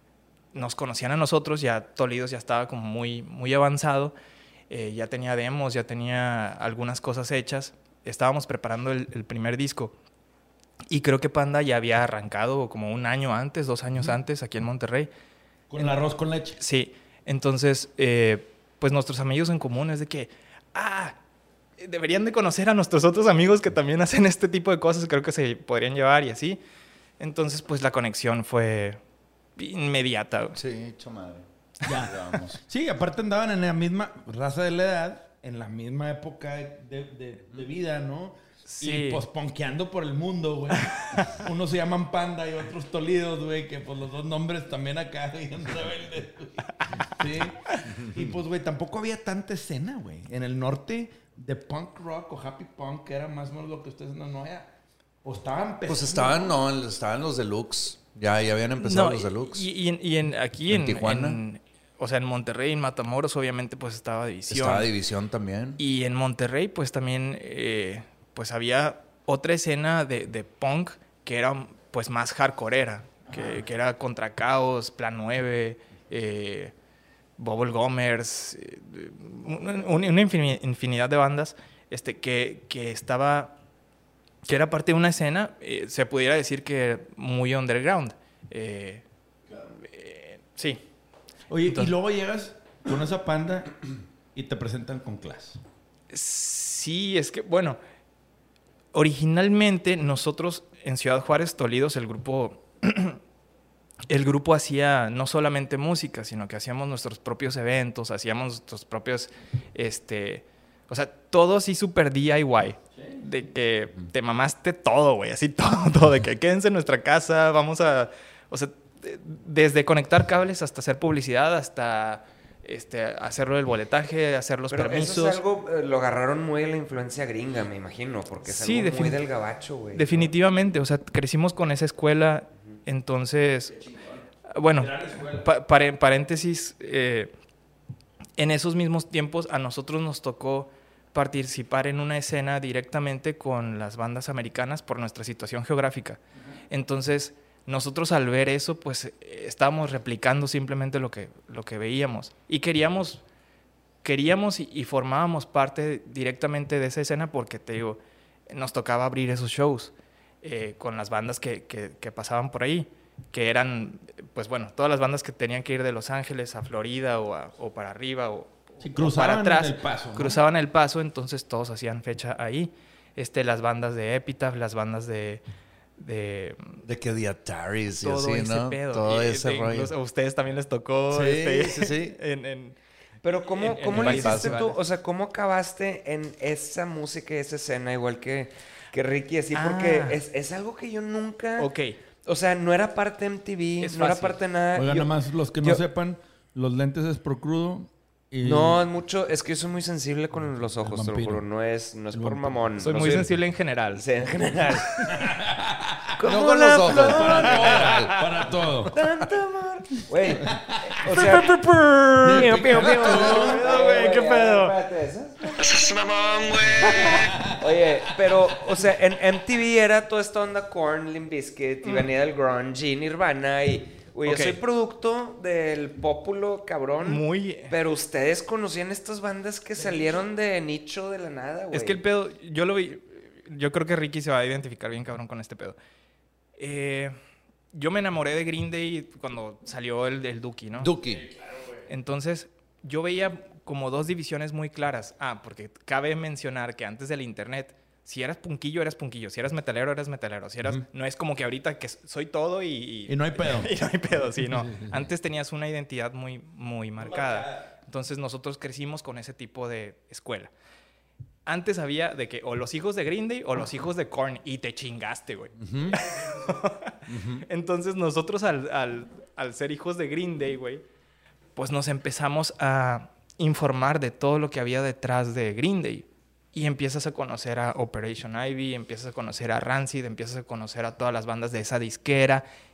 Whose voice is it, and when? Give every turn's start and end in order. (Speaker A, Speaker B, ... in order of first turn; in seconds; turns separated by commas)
Speaker A: 0.5-4.1, Speaker A: 4.7-9.9, Speaker A: 10.9-15.1, Speaker B: 15.7-16.6, Speaker A: 16.6-21.2, Speaker A: 21.8-26.6, Speaker A: 27.2-29.0, Speaker A: 29.6-30.6, Speaker C: 30.6-31.4, Speaker B: 31.8-54.7, Speaker C: 32.0-32.6, Speaker A: 38.6-39.2, Speaker A: 40.8-41.4, Speaker A: 46.8-47.1, Speaker C: 48.0-48.3, Speaker B: 55.2-56.6, Speaker C: 55.9-59.7, Speaker A: 58.8-64.9, Speaker C: 60.7-61.4, Speaker C: 64.5-65.8, Speaker A: 65.8-76.7, Speaker A: 77.4-83.5, Speaker A: 84.4-89.0, Speaker A: 89.7-90.8, Speaker B: 91.5-93.8, Speaker A: 91.7-91.9, Speaker B: 94.3-95.6, Speaker A: 96.1-97.8, Speaker A: 98.9-103.2, Speaker A: 104.1-125.4, Speaker B: 112.9-113.2, Speaker D: 124.7-130.3, Speaker A: 128.4-129.2, Speaker A: 129.9-133.8, Speaker B: 133.8-134.2, Speaker A: 134.5-137.3, Speaker B: 134.8-135.5, Speaker A: 138.4-153.2, Speaker A: 154.0-158.0, Speaker A: 158.5-175.4, Speaker B: 168.8-170.4, Speaker A: 176.0-176.8, Speaker C: 176.8-179.9, Speaker A: 178.0-182.8, Speaker C: 181.1-182.2, Speaker D: 183.2-191.7, Speaker A: 183.6-184.8, Speaker C: 183.8-184.6, Speaker A: 189.5-190.2, Speaker A: 191.6-192.0, Speaker D: 192.2-195.8, Speaker A: 193.8-194.3, Speaker B: 194.7-198.8, Speaker D: 198.4-203.3, Speaker B: 200.8-201.4, Speaker B: 202.1-202.7, Speaker A: 202.8-204.0, Speaker D: 203.9-205.2, Speaker B: 205.1-209.0, Speaker D: 206.2-208.0, Speaker C: 206.2-208.2, Speaker D: 208.9-211.6, Speaker B: 210.2-211.0, Speaker A: 211.1-214.7, Speaker D: 212.2-215.8, Speaker B: 212.2-213.6, Speaker B: 216.6-218.8, Speaker D: 217.6-232.0, Speaker A: 221.8-222.1, Speaker A: 224.2-224.6, Speaker A: 227.0-227.7, Speaker B: 229.8-230.2, Speaker A: 231.7-235.8, Speaker A: 236.6-237.2, Speaker A: 237.7-240.9, Speaker C: 240.8-241.2, Speaker B: 241.0-241.8, Speaker A: 241.9-260.5, Speaker B: 253.1-255.1, Speaker B: 257.0-257.7, Speaker A: 261.4-270.8, Speaker C: 265.6-266.0, Speaker B: 265.9-266.6, Speaker C: 267.1-267.4, Speaker A: 271.6-282.4